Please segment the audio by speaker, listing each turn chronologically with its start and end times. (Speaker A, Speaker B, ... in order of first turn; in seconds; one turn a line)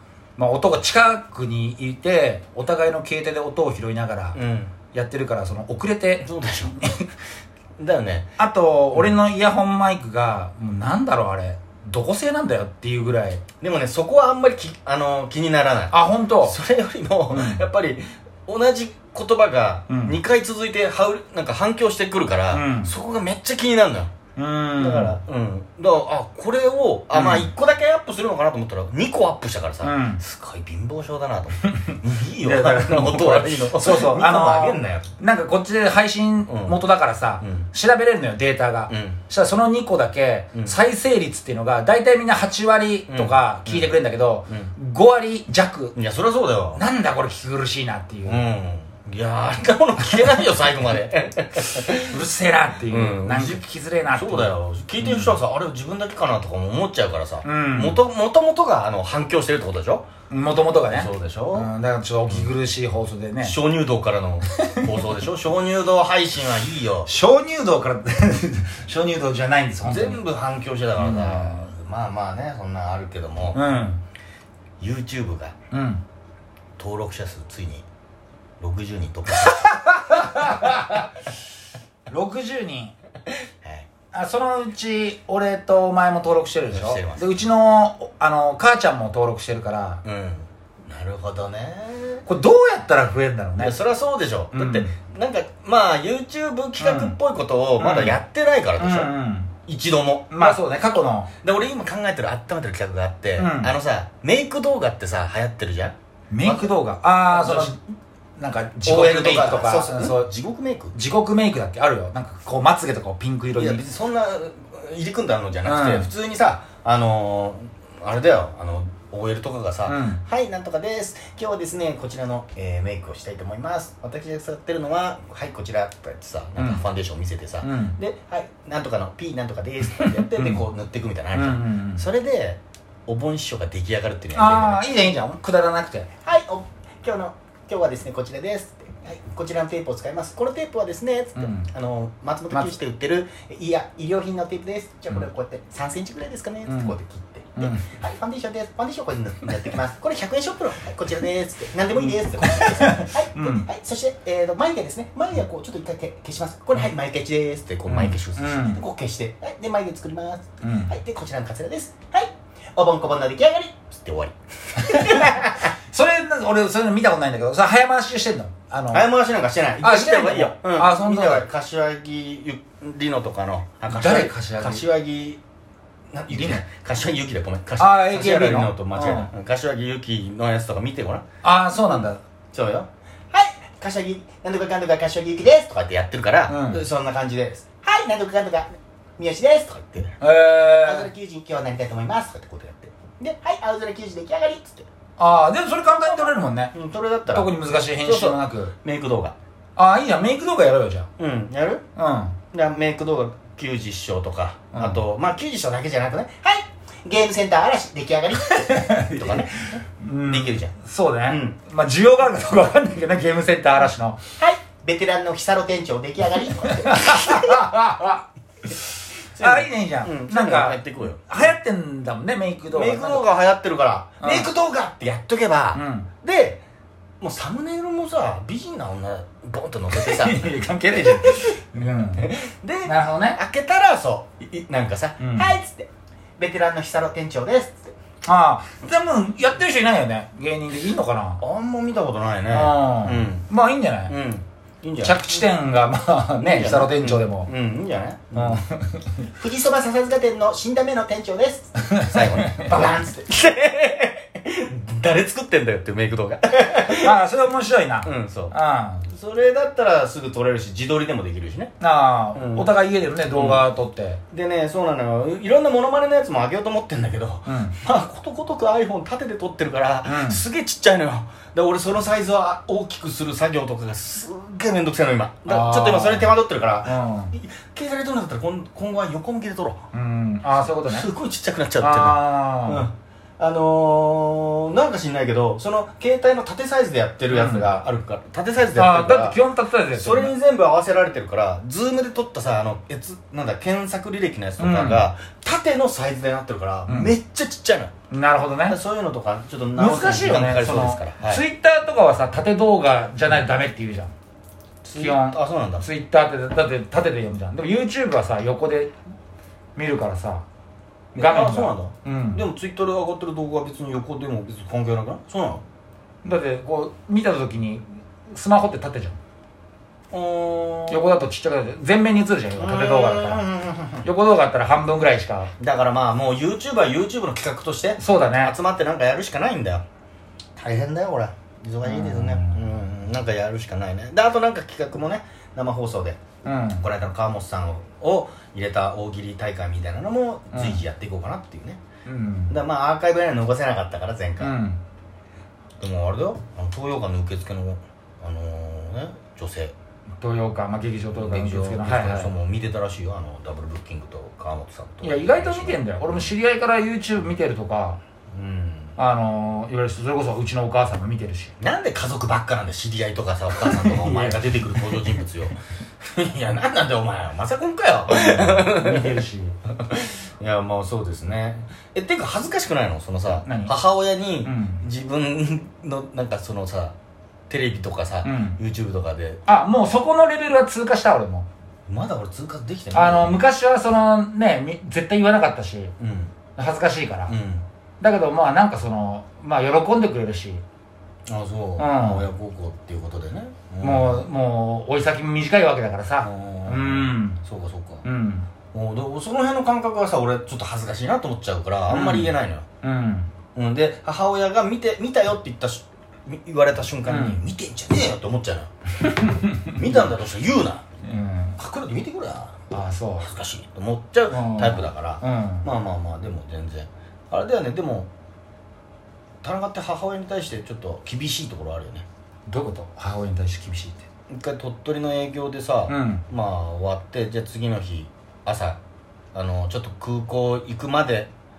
Speaker A: 0.4-4.4
Speaker B: 4.3-4.8
Speaker A: 4.9-7.0
Speaker B: 6.2-6.9
Speaker B: 7.8-8.3
Speaker A: 8.4-13.4
Speaker B: 13.6-24.1
Speaker A: 15.9-16.6
Speaker A: 17.3-17.6
Speaker A: 19.9-20.2
Speaker A: 22.5-22.9
Speaker A: 24.4-25.2
Speaker B: 24.8-35.1
Speaker A: 27.1-27.5
Speaker A: 29.8-30.2
Speaker A: 31.7-46.0
Speaker B: 36.5-36.8
Speaker B: 37.4-37.7
Speaker B: 38.9-39.2
Speaker B: 43.1-44.7
Speaker B: 46.0-46.8
Speaker A: 46.8-48.4
Speaker B: 48.3-52.2
Speaker A: 51.9-55.4
Speaker B: 52.9-60.1
Speaker A: 57.4-58.0
Speaker A: 60.3-63.6
Speaker B: 60.9-61.7
Speaker B: 63.4-67.1
Speaker A: 64.5-64.9
Speaker A: 67.1-70.2
Speaker B: 69.8-73.7
Speaker A: 71.0-71.7
Speaker A: 73.5-74.0
Speaker B: 74.8-75.5
Speaker A: 75.7-76.0
Speaker B: 76.8-77.8
Speaker B: 78.6-80.9
Speaker A: 79.5-81.0
Speaker A: 82.1-82.9
Speaker B: 83.6-83.9
Speaker A: 84.1-90.0
Speaker B: 86.7-87.3
Speaker B: 90.0-92.2
Speaker A: 92.3-93.8
Speaker B: 93.6-99.1
Speaker A: 94.5-94.9
Speaker A: 96.8-97.2
Speaker A: 97.8-98.2
Speaker A: 98.8-99.5
Speaker B: 99.7-100.6
Speaker A: 100.3-101.3
Speaker B: 101.4-106.7
Speaker A: 103.4-103.7
Speaker A: 106.3-107.8
Speaker B: 107.3-107.8
Speaker A: 108.4-110.3
Speaker B: 108.8-111.0
Speaker A: 110.9-113.8
Speaker B: 113.5-134.9
Speaker A: 115.7-116.1
Speaker A: 119.9-120.2
Speaker A: 126.6-126.8
Speaker A: 127.6-128.0
Speaker A: 130.2-130.7
Speaker A: 131.3-132.1
Speaker A: 134.3-136.1
Speaker B: 136.2-165.7
Speaker A: 141.4-141.7
Speaker A: 146.7-146.9
Speaker A: 147.6-147.8
Speaker A: 152.0-153.7
Speaker A: 157.9-158.8
Speaker A: 160.6-160.9
Speaker A: 164.8-169.1
Speaker B: 168.9-175.4
Speaker A: 169.8-171.5
Speaker A: 173.9-174.8
Speaker B: 176.1-181.2
Speaker A: 176.3-176.6
Speaker A: 177.8-179.3
Speaker A: 181.4-182.2
Speaker B: 181.9-194.9
Speaker A: 186.5-186.8
Speaker A: 190.2-191.1
Speaker A: 195.2-196.7
Speaker B: 195.9-199.4
Speaker A: 197.3-198.7
Speaker A: 199.8-201.1
Speaker B: 201.2-201.8
Speaker A: 202.0-202.4
Speaker B: 202.5-210.8
Speaker A: 204.7-205.0
Speaker A: 208.5-209.5
Speaker A: 210.0-214.2
Speaker B: 211.3-211.6
Speaker B: 214.4-217.8
Speaker A: 216.7-223.2
Speaker B: 219.3-221.3
Speaker B: 222.7-226.6
Speaker A: 224.2-224.5
Speaker A: 225.7-226.1
Speaker B: 227.2-231.5
Speaker A: 229.9-232.3
Speaker B: 232.2-237.9
Speaker A: 232.8-233.4
Speaker A: 235.2-235.5
Speaker A: 238.2-241.4
Speaker B: 241.4-243.5
Speaker A: 242.5-244.2
Speaker B: 244.1-245.5
Speaker A: 245.0-247.5
Speaker B: 246.4-248.6
Speaker A: 248.3-249.3
Speaker B: 249.3-257.2
Speaker A: 251.8-252.8
Speaker A: 256.9-259.1
Speaker B: 258.0-258.6
Speaker B: 259.1-261.7
Speaker A: 261.8-264.2
Speaker B: 262.3-262.7
Speaker B: 263.3-263.6
Speaker B: 264.3-279.8
Speaker A: 267.5-267.7
Speaker A: 270.1-270.4
Speaker A: 275.5-276.3
Speaker A: 276.9-277.3
Speaker A: 279.9-281.1
Speaker B: 280.9-289.4
Speaker A: 281.8-282.9
Speaker A: 287.3-287.7
Speaker A: 288.8-290.3
Speaker B: 289.9-297.9
Speaker A: 294.6-295.1
Speaker A: 298.1-298.8
Speaker B: 298.7-301.4
Speaker A: 299.8-304.1
Speaker B: 304.8-305.9
Speaker A: 304.9-308.9
Speaker A: 309.8-310.5
Speaker A: 311.1-312.4
Speaker B: 311.1-315.6
Speaker A: 316.2-319.2
Speaker B: 320.1-321.2
Speaker A: 320.9-323.4
Speaker B: 322.6-324.1
Speaker A: 324.0-325.5
Speaker B: 325.6-329.8
Speaker A: 328.0-328.6
Speaker B: 330.6-336.2
Speaker A: 331.8-332.6
Speaker A: 336.4-336.9
Speaker B: 336.8-341.8
Speaker A: 340.5-340.8
Speaker A: 342.1-342.6
Speaker B: 342.5-344.6
Speaker A: 344.4-344.8
Speaker B: 345.8-349.7
Speaker A: 350.2-352.3
Speaker B: 351.1-356.3
Speaker A: 355.0-358.0
Speaker B: 358.3-358.9
Speaker A: 359.0-361.5
Speaker B: 361.6-369.2
Speaker A: 363.6-365.1
Speaker A: 368.1-369.6
Speaker B: 369.8-376.9
Speaker A: 373.3-373.7
Speaker A: 374.4-374.8
Speaker B: 377.5-379.4
Speaker A: 378.2-378.6
Speaker A: 379.5-381.5
Speaker B: 381.9-383.4
Speaker A: 382.9-385.9
Speaker B: 386.0-386.3
Speaker A: 386.6-387.3
Speaker B: 387.3-387.7
Speaker A: 388.0-390.6
Speaker B: 391.3-394.3
Speaker A: 391.8-392.2
Speaker A: 393.8-397.4
Speaker B: 396.2-398.1
Speaker A: 398.0-398.5
Speaker B: 398.7-402.6
Speaker A: 401.9-403.3
Speaker B: 403.6-408.7
Speaker A: 407.1-407.4
Speaker A: 409.0-410.0
Speaker B: 409.6-410.9
Speaker A: 411.0-411.6
Speaker B: 411.6-418.1
Speaker A: 412.7-413.3
Speaker A: 414.3-415.7
Speaker B: 419.4-422.1
Speaker A: 422.5-424.0
Speaker B: 424.3-428.8
Speaker A: 425.9-426.2
Speaker B: 429.3-431.3